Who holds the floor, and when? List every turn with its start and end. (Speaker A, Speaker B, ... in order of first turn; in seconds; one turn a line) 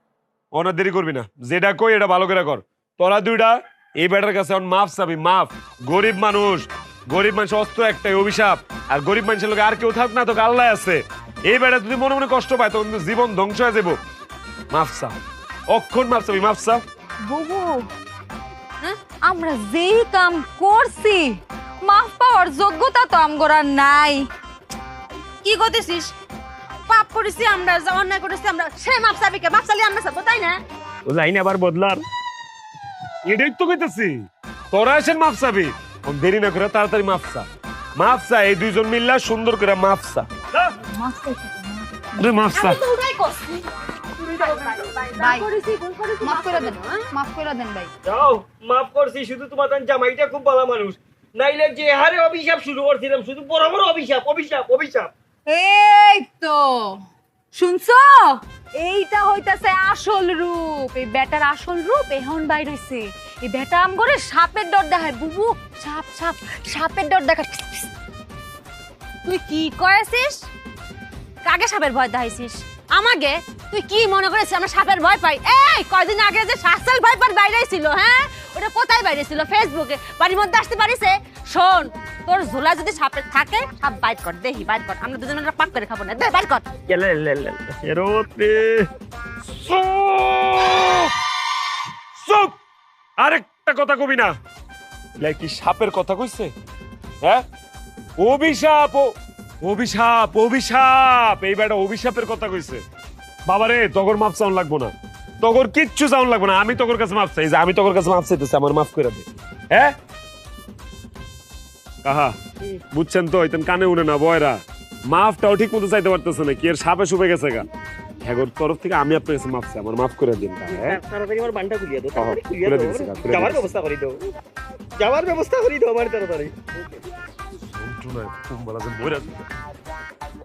Speaker A: 0.5-14.0
Speaker A: 14.7-15.2
Speaker A: 15.7-16.8
Speaker B: 17.2-17.8
Speaker B: 19.2-24.2
Speaker C: 25.4-26.1
Speaker C: 26.9-30.6
Speaker A: 31.1-32.0
Speaker A: 33.2-40.7
Speaker B: 40.9-41.9
Speaker A: 42.2-42.8
Speaker C: 42.5-43.6
Speaker C: 44.4-47.0
Speaker B: 45.1-45.5
Speaker B: 46.2-47.9
Speaker D: 48.0-55.1
Speaker B: 55.5-56.8
Speaker B: 57.5-58.3
Speaker B: 58.8-67.9
Speaker C: 69.2-70.5
Speaker C: 71.4-86.6
Speaker D: 86.9-88.9
Speaker A: 89.5-91.1
Speaker A: 92.2-92.5
Speaker A: 93.2-94.3
Speaker A: 95.2-96.5
Speaker A: 98.2-102.8
Speaker A: 103.5-109.9
Speaker A: 112.0-112.3
Speaker A: 112.9-117.7
Speaker A: 118.2-121.0
Speaker D: 120.7-124.2
Speaker A: 122.1-123.7
Speaker D: 125.0-127.0
Speaker A: 127.6-129.5